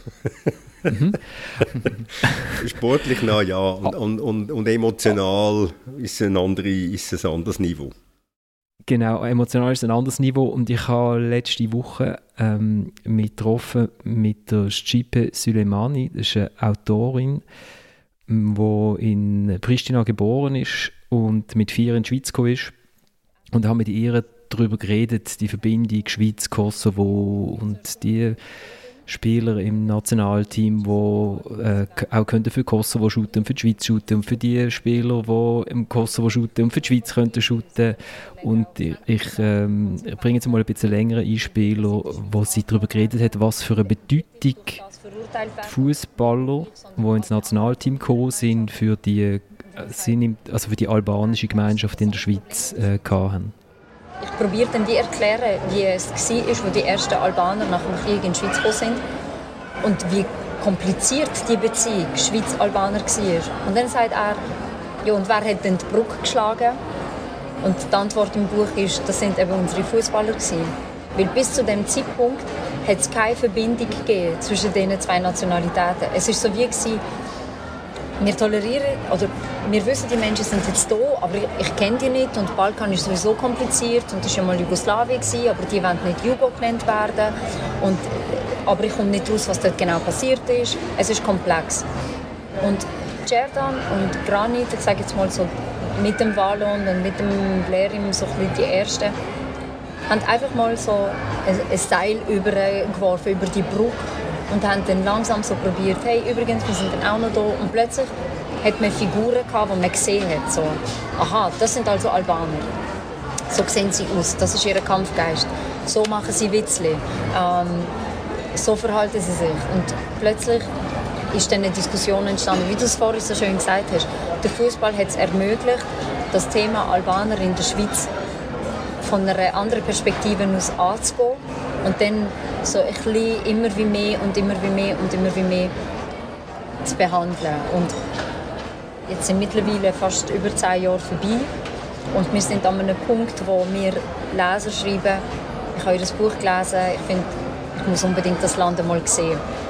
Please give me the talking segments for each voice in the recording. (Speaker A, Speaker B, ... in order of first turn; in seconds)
Speaker A: 0.2-0.5, 2.6-7.9
Speaker B: 0.9-1.6, 8.9-17.4, 18.3-22.7, 23.5-28.4, 29.1-44.8, 45.6-53.5
Speaker C: 30.8-32.1, 36.0-48.8, 49.7-50.3, 50.9-53.3, 54.2-59.0, 59.8-64.4, 65.0-66.8, 67.6-77.0, 78.2-91.8, 92.6-99.1, 100.1-108.1, 108.6-112.7, 113.5-117.9, 118.5-120.7, 121.3-128.1, 129.0-135.7, 136.8-137.9, 139.1-141.5, 142.1-149.4